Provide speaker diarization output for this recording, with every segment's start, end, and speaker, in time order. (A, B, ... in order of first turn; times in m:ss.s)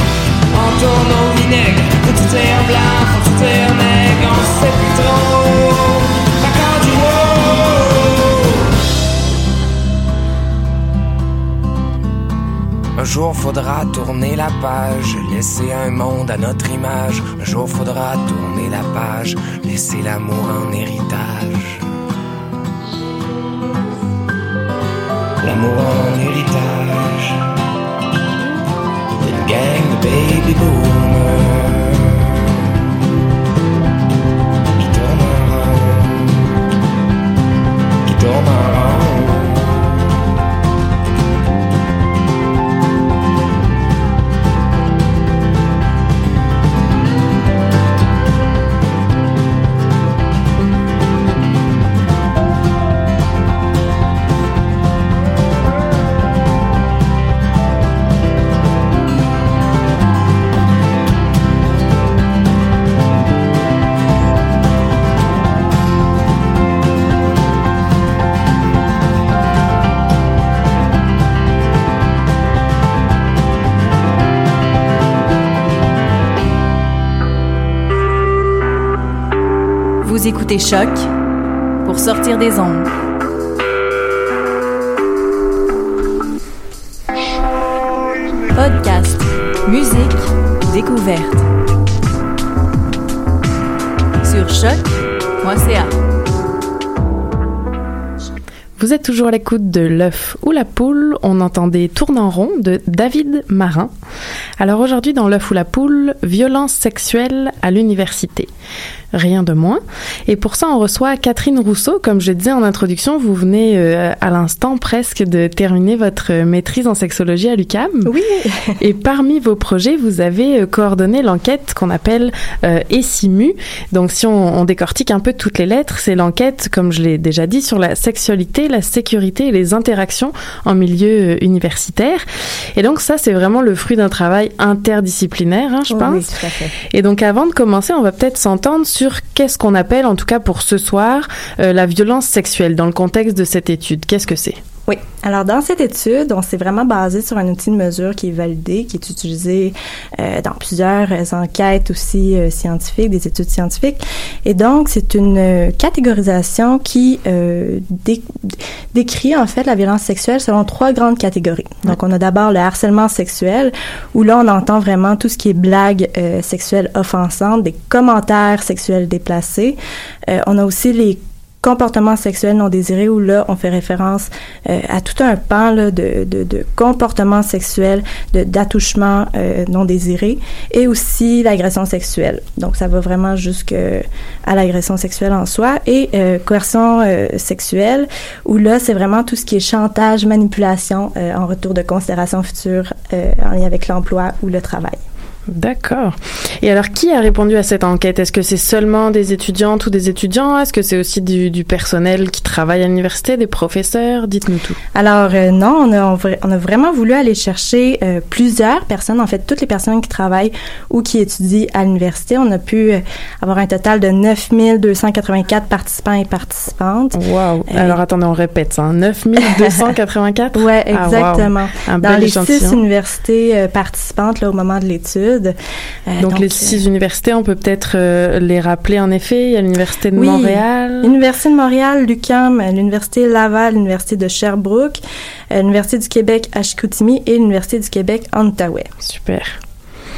0:00.5-0:08.6 A
0:13.0-0:21.8 A
0:25.4-0:27.4 A
0:29.2-0:32.6 A
0:34.8-0:36.5 A
0:38.1-0:39.9 A
1:20.0-1:21.1 B
1:21.8-1:22.9 B
1:28.6-1:31.4 B
1:34.2-1:34.9 B
1:35.4-1:35.9 B
1:38.8-1:43.9 C
1:44.6-1:48.5 C
1:49.1-1:58.1 C
1:58.0-1:58.8 D
1:58.8-2:12.2 C
2:12.8-2:16.3 C
2:15.9-2:16.7 D
2:16.9-2:24.6 C
2:24.9-3:15.0 D
3:15.5-3:24.8 C
3:25.0-3:37.2 D
3:37.2-3:42.8 C
3:37.7-3:38.0 D
3:39.4-3:39.8 D
3:40.5-3:45.6 D
3:46.1-3:46.8 D
3:46.2-3:51.1 C
3:50.1-3:55.0 D
3:55.5-3:58.9 D
3:59.0-3:59.6 C